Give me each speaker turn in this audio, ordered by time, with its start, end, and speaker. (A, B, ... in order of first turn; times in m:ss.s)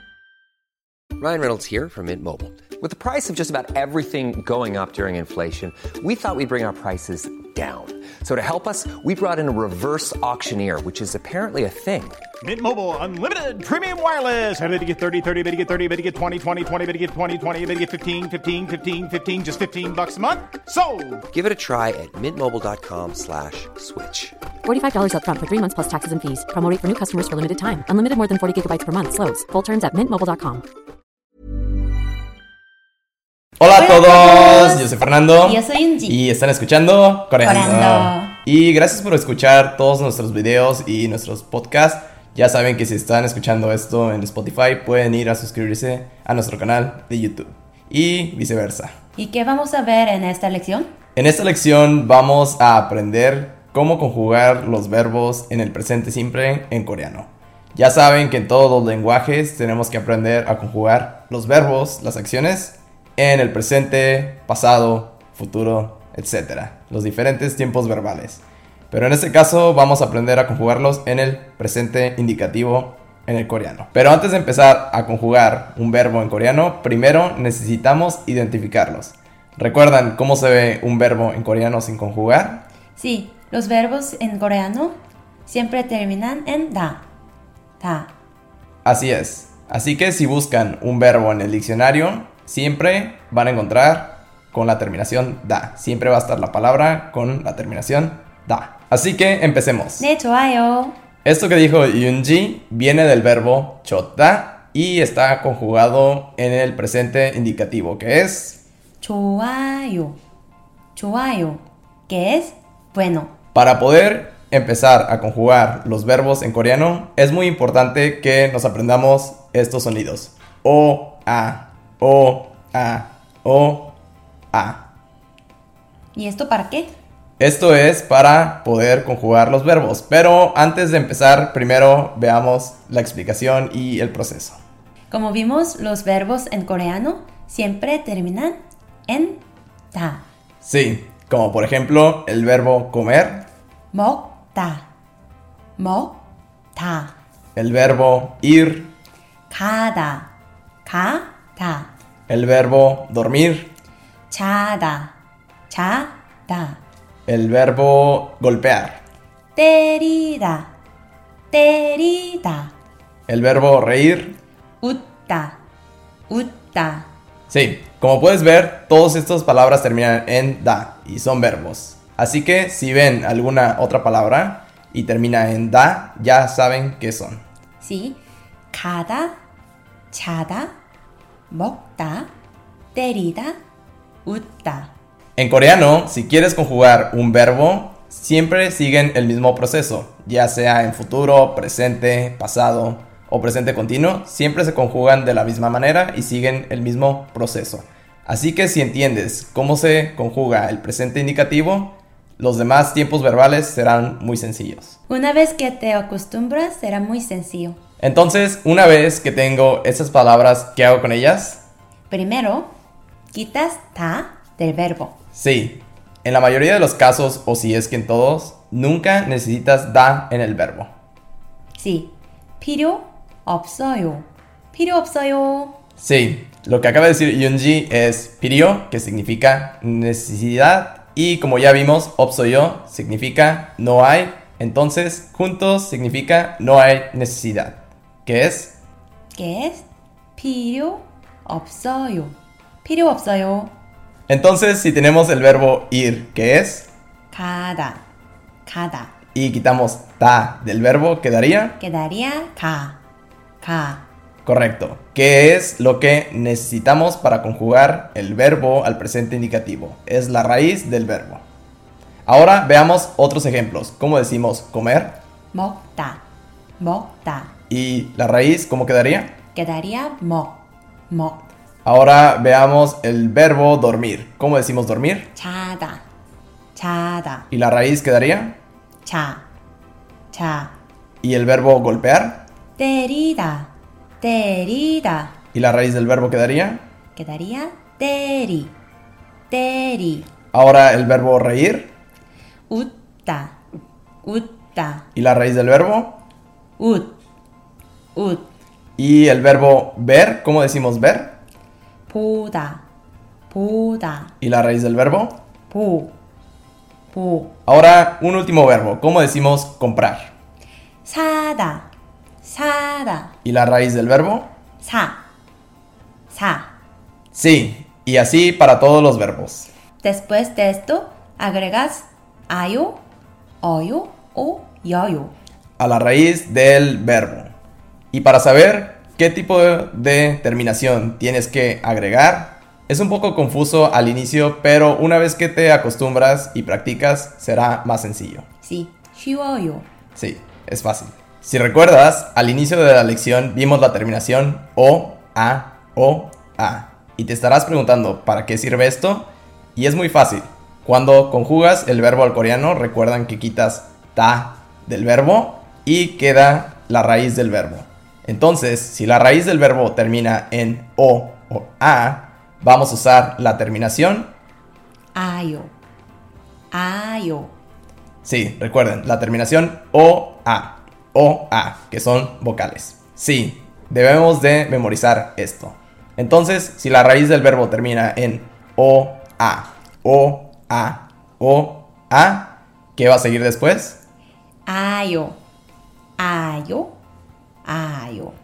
0:01.2-0:12.2 A
0:12.4-0:21.2 B
0:21.3-0:24.4 A
0:24.6-0:30.6 C
0:33.6-0:48.9 D
0:33.7-0:34.9 E
0:35.4-0:36.2 E
0:37.4-0:38.3 E
0:49.2-0:50.9 E
0:51.2-1:22.6 D
1:22.9-1:27.0 E
1:27.8-1:28.1 E
1:28.8-1:40.0 D
1:40.0-1:41.0 E
1:41.2-1:48.6 D
1:49.0-1:50.2 E
1:50.9-1:53.3 E
1:53.5-2:03.9 D
2:04.5-2:04.9 D
2:06.1-2:06.9 E
2:07.4-2:14.6 D
2:15.1-2:20.2 E
2:20.6-2:23.4 D
2:23.9-2:24.8 E
2:25.8-2:26.2 E
2:26.7-2:27.1 E
2:27.6-2:28.9 D
2:29.5-2:30.3 E
2:30.8-2:31.9 E
2:32.3-2:33.7 D
2:34.3-2:35.1 E
2:35.7-2:36.8 E
2:37.3-2:39.0 D
2:39.5-2:40.7 E
2:41.5-2:42.7 E
2:43.3-2:44.3 D
2:44.8-2:45.6 E
2:46.3-2:47.1 E
2:47.5-2:57.4 D
2:57.8-2:58.2 E
2:58.7-2:59.3 E
3:00.1-3:00.7 E
3:01.5-3:02.3 E
3:02.9-3:03.6 E
3:04.2-3:04.9 E
3:05.4-3:25.0 D
3:25.1-3:27.8 E
3:28.0-3:31.6 D
3:32.1-3:32.7 E
3:33.3-3:35.2 E
3:35.3-3:40.9 D
3:41.8-3:45.7 E
3:46.0-3:58.7 D
3:59.3-4:03.7 E
4:04.3-4:06.9 D
4:07.3-4:08.0 E
4:08.6-4:09.1 E
4:09.3-4:11.8 D
4:11.8-4:13.0 E
4:13.6-4:14.0 E
4:14.4-4:21.4 D
4:22.2-4:25.1 D
4:25.5-4:26.2 E
4:26.8-4:27.5 E
4:27.7-4:29.3 D
4:29.5-4:31.5 E
4:31.8-4:35.3 D
4:35.4-4:36.0 E
4:36.7-4:37.4 E
4:37.5-4:38.6 D
4:39.0-4:39.4 E
4:40.3-4:40.7 E
4:41.2-4:42.4 D
4:42.8-4:45.3 E
4:45.5-4:46.8 D
4:47.1-4:48.7 E
4:49.5-4:50.3 E
4:50.5-4:51.9 D
4:52.7-4:53.6 E
4:54.2-4:55.0 E
4:55.1-4:56.2 D
4:56.8-4:57.1 E
4:58.1-4:58.5 E
4:59.0-5:01.4 D
5:02.1-5:02.8 E
5:03.5-5:04.3 E
5:04.4-5:05.4 D
5:05.7-5:06.1 E
5:07.1-5:07.5 E
5:07.6-5:10.3 D
5:11.0-5:11.9 E
5:12.4-5:13.3 E
5:13.4-5:14.5 D
5:14.8-5:15.2 E
5:16.3-5:16.7 E
5:17.3-5:19.7 D
5:20.0-5:23.0 E
5:23.6-5:25.3 E
5:25.8-5:27.5 D
5:28.1-5:38.4 D
5:38.6-5:39.9 E
5:40.2-6:04.3 D
6:05.1-6:05.7 E
6:06.7-6:07.5 E
6:08.2-6:24.0 D
6:24.7-6:25.4 E
6:26.2-6:26.9 E
6:27.6-6:28.4 E